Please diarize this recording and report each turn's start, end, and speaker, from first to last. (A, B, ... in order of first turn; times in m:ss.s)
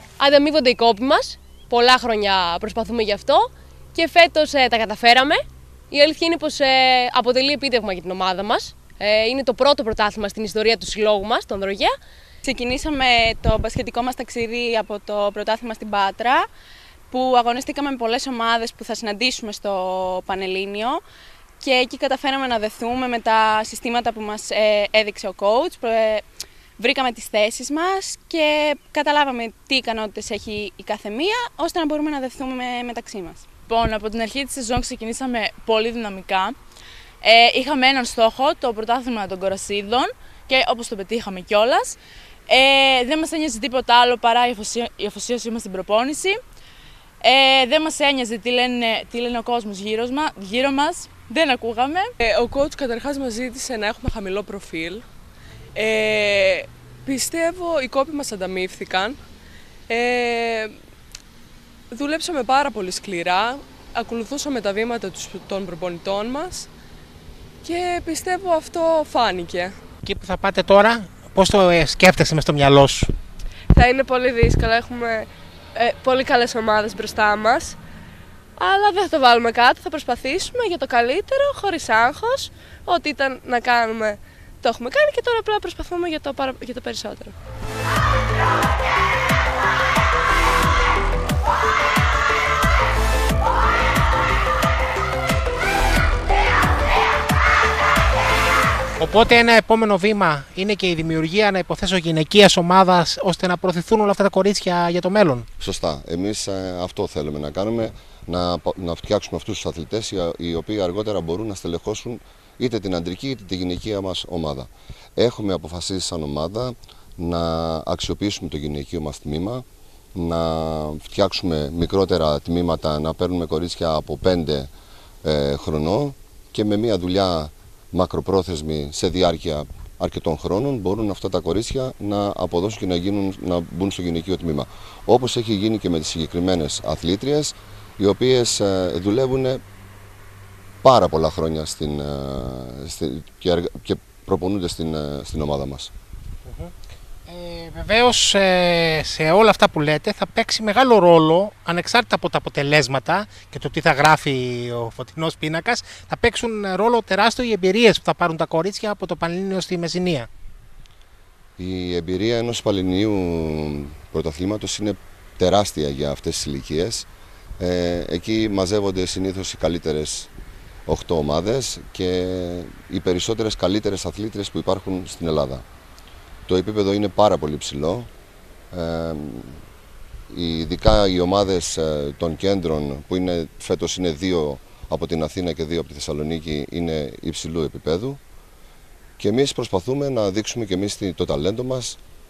0:00.2-0:11.9 A
0:12.4-0:16.5 B
0:17.1-0:21.0 B
0:21.6-0:26.2 B
0:26.8-0:33.4 B
0:33.7-0:36.6 C
0:37.2-0:46.4 C
0:47.2-0:52.1 C
0:52.2-0:55.0 D
0:55.7-0:59.2 D
0:59.9-1:00.8 D
1:01.9-1:06.7 D
1:07.6-1:09.7 D
1:10.0-1:13.1 E
1:13.7-1:17.8 D
1:18.6-1:27.3 D
1:39.0-1:45.5 E
1:45.6-1:59.6 F
2:00.2-2:04.7 F
2:05.2-2:19.6 F
2:20.8-2:25.9 F
2:26.5-2:26.7 E
2:27.3-2:40.3 E
2:41.6-2:47.1 F
2:47.6-2:50.3 F
2:50.9-2:55.6 F
2:56.5-2:58.1 F
2:58.7-2:59.6 F
3:00.3-3:08.2 F
3:09.2-3:12.0 F